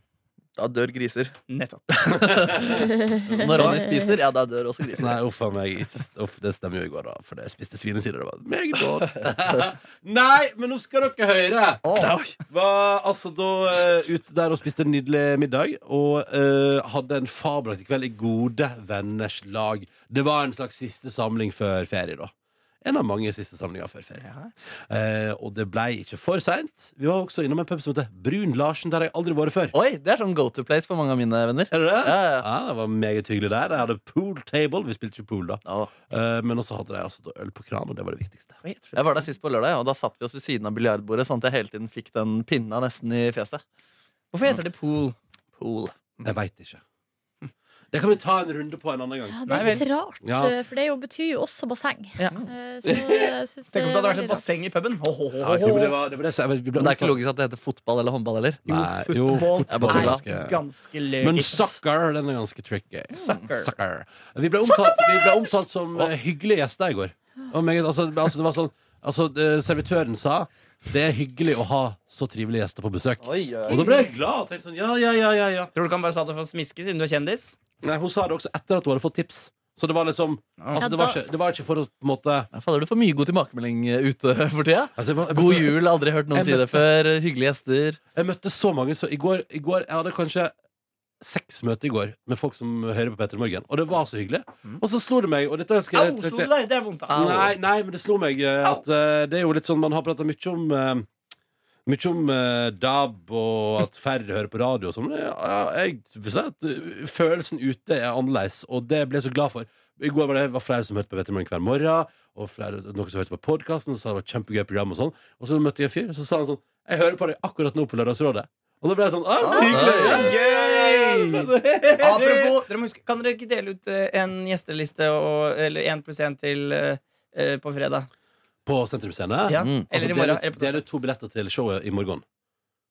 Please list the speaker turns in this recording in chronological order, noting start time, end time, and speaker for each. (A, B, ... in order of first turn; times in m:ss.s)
0:00.6-0:01.4 A
0:01.5-0:02.1 B
0:01.9-0:02.9 A
0:02.1-0:03.8 C
0:02.8-0:04.1 D
0:03.4-0:05.2 A
0:05.0-0:11.8 C
0:08.8-0:09.1 B
0:11.8-0:12.2 B
0:12.0-0:12.3 A
0:12.5-0:24.2 C
0:24.2-0:24.5 B
0:24.9-0:29.7 C
0:29.7-0:32.5 A
0:31.7-0:38.6 C
0:35.7-0:35.9 A
0:38.6-0:39.2 B
0:39.0-0:43.6 A
0:44.3-0:45.2 B
0:45.6-0:46.3 A
0:46.2-0:46.8 C
0:47.9-0:50.6 C
0:49.3-0:54.4 D
0:49.5-0:49.9 B
0:52.2-0:52.4 B
0:52.8-0:53.4 C
0:53.7-0:56.0 B
0:55.4-0:57.2 C
0:56.8-1:00.2 A
0:58.7-1:00.6 C
0:58.7-1:01.7 B
1:01.2-1:15.7 C
1:03.1-1:03.7 B
1:13.2-1:13.9 A
1:15.8-1:17.6 B
1:17.8-1:22.5 C
1:20.6-1:20.9 B
1:20.8-1:21.2 D
1:22.5-1:28.0 A
1:25.0-1:26.8 C
1:28.2-1:30.5 C
1:31.2-1:36.5 C
1:35.9-1:37.5 B
1:37.1-1:37.4 A
1:37.1-1:41.1 C
1:41.9-2:02.6 C
1:59.4-2:08.1 B
1:59.6-2:00.4 A
2:08.6-2:12.2 C
2:09.5-2:10.8 B
2:09.6-2:09.9 A